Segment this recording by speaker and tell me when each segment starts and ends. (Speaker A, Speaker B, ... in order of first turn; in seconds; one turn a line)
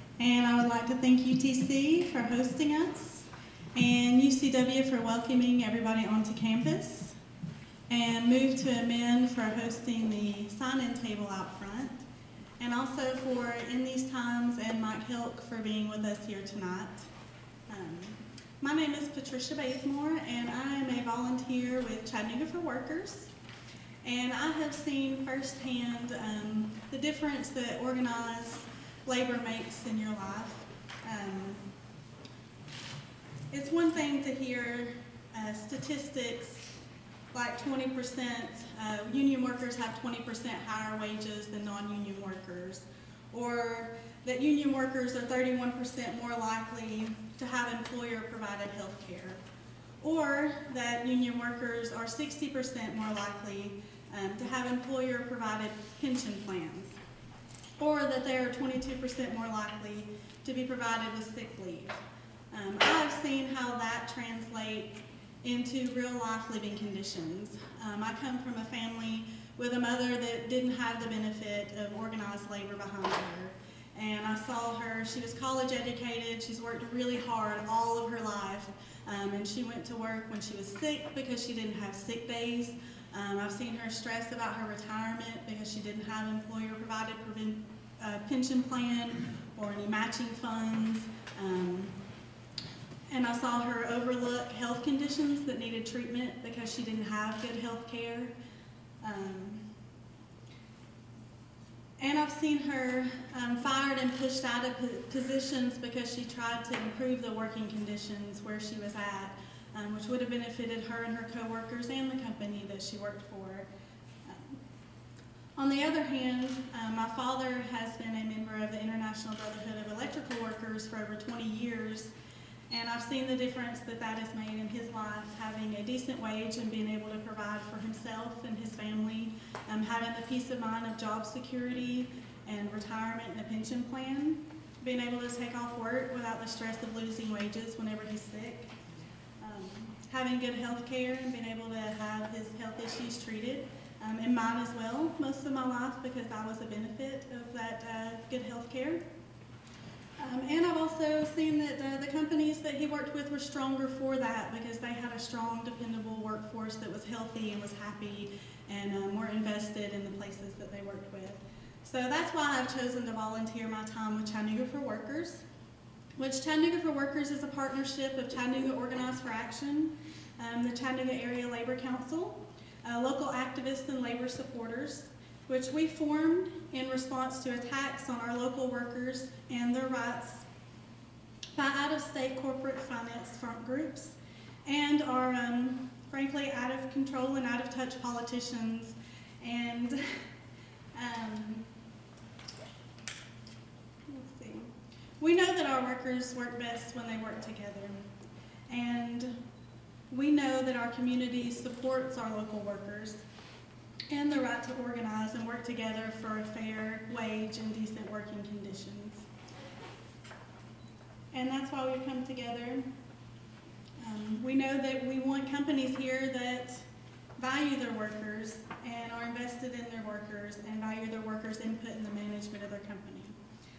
Speaker A: 0.2-7.2
Speaker A: 7.9-12.0
Speaker A: 12.6-17.1
Speaker A: 17.7-23.3
Speaker A: 24.0-31.6
Speaker A: 33.5-36.7
Speaker A: 37.3-49.4
Speaker A: 50.0-57.0
Speaker A: 57.8-92.0
Speaker A: 93.1-98.3
Speaker A: 99.0-99.7
Speaker A: 102.0-113.7
Speaker A: 114.2-114.6
Speaker A: 115.6-122.1
Speaker A: 122.7-138.7
Speaker A: 139.4-149.0
Speaker A: 150.2-165.4
Speaker A: 166.2-180.5
Speaker A: 181.6-190.2
Speaker A: 190.9-191.7
Speaker A: 194.1-198.0
Speaker A: 198.7-199.4
Speaker A: 200.1-203.2
Speaker A: 204.1-209.3
Speaker A: 211.3-212.9
Speaker A: 214.0-223.4